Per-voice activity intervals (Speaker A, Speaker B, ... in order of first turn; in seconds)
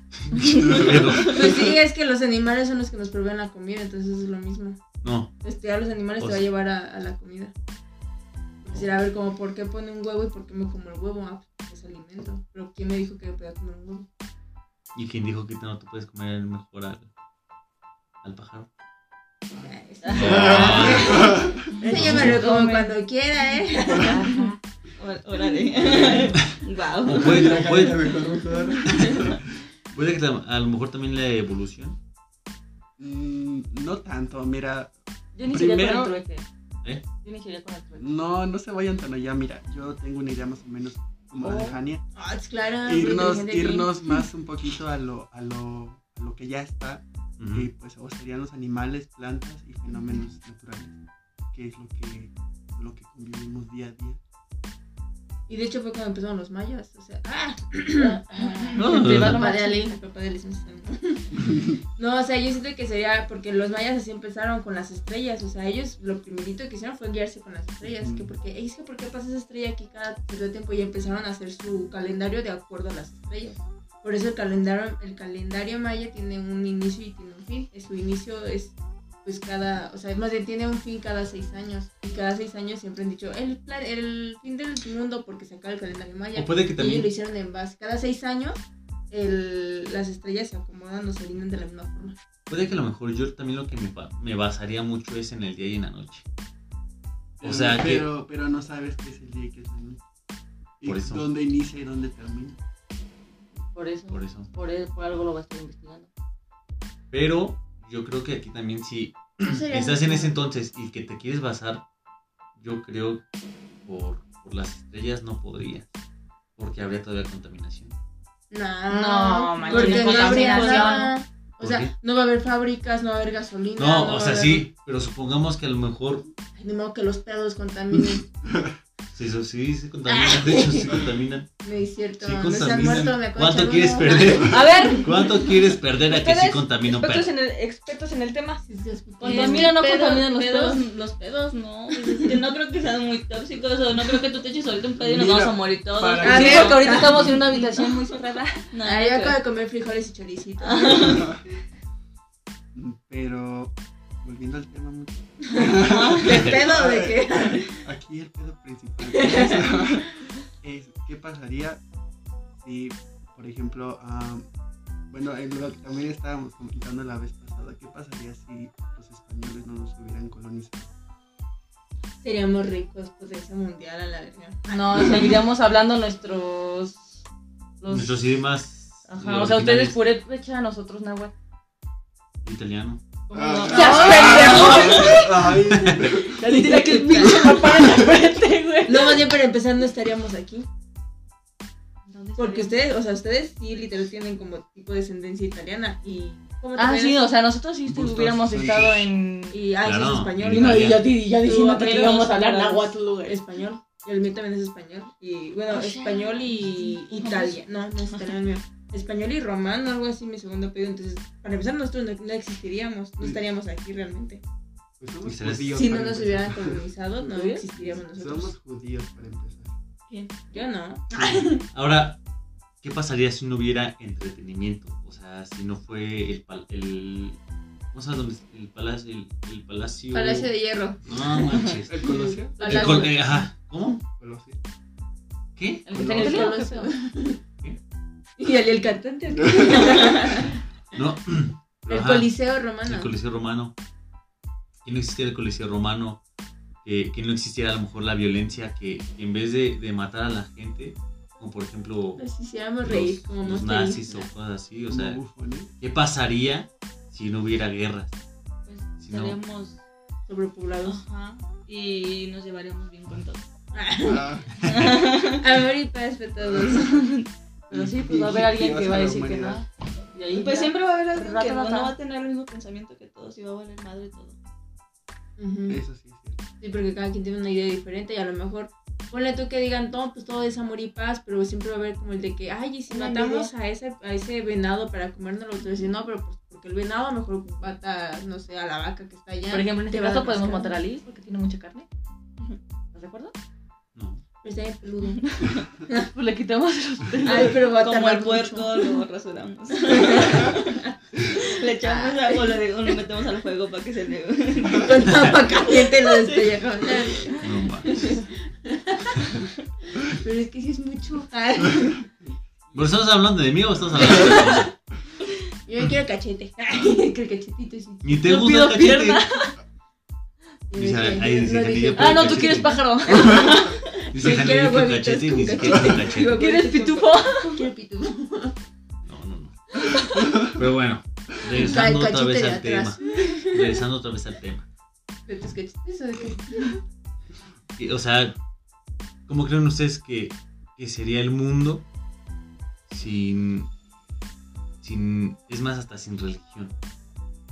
Speaker A: 0.2-1.8, 5.0-5.3, 6.2-6.5, 14.9-17.1, 18.2-18.7, 20.1-21.4, 21.9-22.4, 27.1-28.1, 28.9-29.4, 29.9-32.0, 47.4-47.7, 58.8-59.4, 86.3-87.1, 92.5-96.2, 97.4-98.1, 100.8-101.3, 104.1-104.5, 107.1-111.8, 112.6-113.2, 113.8-115.9, 116.6-117.9, 121.6-121.9, 123.8-126.3, 129.1-131.5, 132.2-137.3, 156.3-156.6, 177.9-180.0, 182.4-183.0, 185.7-186.2, 199.8-201.1, 215.2-215.8, 221.7-222.2, 222.8-227.4, 227.9-234.1, 235.6-235.9, 240.9-243.7, 244.8-246.2, 246.8-252.3, 252.8-255.2, 255.8-258.2, 259.0-259.4, 293.9-294.2, 305.1-305.4, 307.4-308.2, 312.7-314.7, 318.0-319.3, 320.7-322.8, 324.1-326.4, 329.1-334.7, 337.8-338.4, 339.3-341.9, 342.9-343.7, 344.8-346.7
Speaker B: 0.6-0.9, 19.6-22.4, 25.9-26.2, 27.1-29.4, 33.0-34.9, 35.5-36.2, 38.0-42.0, 42.8-51.0, 51.5-54.2, 61.4-61.7, 67.8-68.3, 97.4-100.0, 100.8-102.6, 128.0-128.8, 145.0-147.2, 152.8-153.7, 154.2-161.8, 162.6-164.5, 165.1-170.9, 183.3-186.4, 187.1-188.0, 197.9-199.1, 215.0-216.8, 218.1-219.7, 231.9-232.9, 234.2-234.6, 235.9-236.5, 239.4-240.1, 254.9-255.7, 264.0-264.7, 266.4-266.8, 267.7-269.6, 275.7-276.4
Speaker C: 0.9-4.8, 5.4-7.5, 8.7-14.1, 19.6-24.4, 42.1-43.9, 55.5-61.4, 62.0-92.2, 109.4-110.4, 118.5-124.7, 126.5-128.3, 130.1-131.0, 131.6-135.1, 138.7-139.8, 146.2-147.4, 148.8-151.3, 155.5-157.8, 159.2-159.8, 172.2-175.4, 184.3-184.8, 186.5-187.6, 188.9-190.7, 192.4-197.3, 199.5-214.4, 215.7-218.5, 220.5-221.6, 230.1-233.2, 236.0-237.4, 238.4-240.6, 241.9-243.1, 252.2-254.3, 260.3-261.0, 263.7-264.3, 265.4-267.1, 275.4-275.8, 276.6-290.7, 294.4-296.0, 297.2-298.9, 299.9-300.6, 301.4-302.6, 304.7-309.4, 309.9-312.1, 314.0-314.7, 315.7-318.3, 320.7-328.6, 331.5-333.8, 335.3-336.8
Speaker D: 20.0-21.2, 21.8-23.0, 23.9-24.6, 35.4-36.5, 37.2-38.1, 41.4-41.8, 58.0-60.0, 103.7-106.1, 118.9-121.1, 134.5-135.2, 136.1-138.6, 139.2-140.8, 146.2-148.7, 174.7-177.2, 177.8-178.1, 179.1-181.3, 183.6-185.5, 186.2-189.3, 196.8-199.6, 200.4-203.4, 217.3-217.7, 232.6-233.1, 235.8-236.9, 267.7-271.9, 289.5-291.9, 292.9-293.3, 295.4-297.6, 318.2-319.6, 321.9-323.8, 326.4-327.7
Speaker E: 25.0-28.1, 119.6-121.1, 139.2-147.9, 148.7-149.4, 150.6-151.3, 155.8-156.4, 183.3-185.3, 192.1-192.7, 205.7-208.3, 220.1-220.6, 258.7-259.8, 260.8-263.4, 264.6-265.4, 266.9-267.2, 270.3-274.4, 282.9-283.5, 297.3-307.4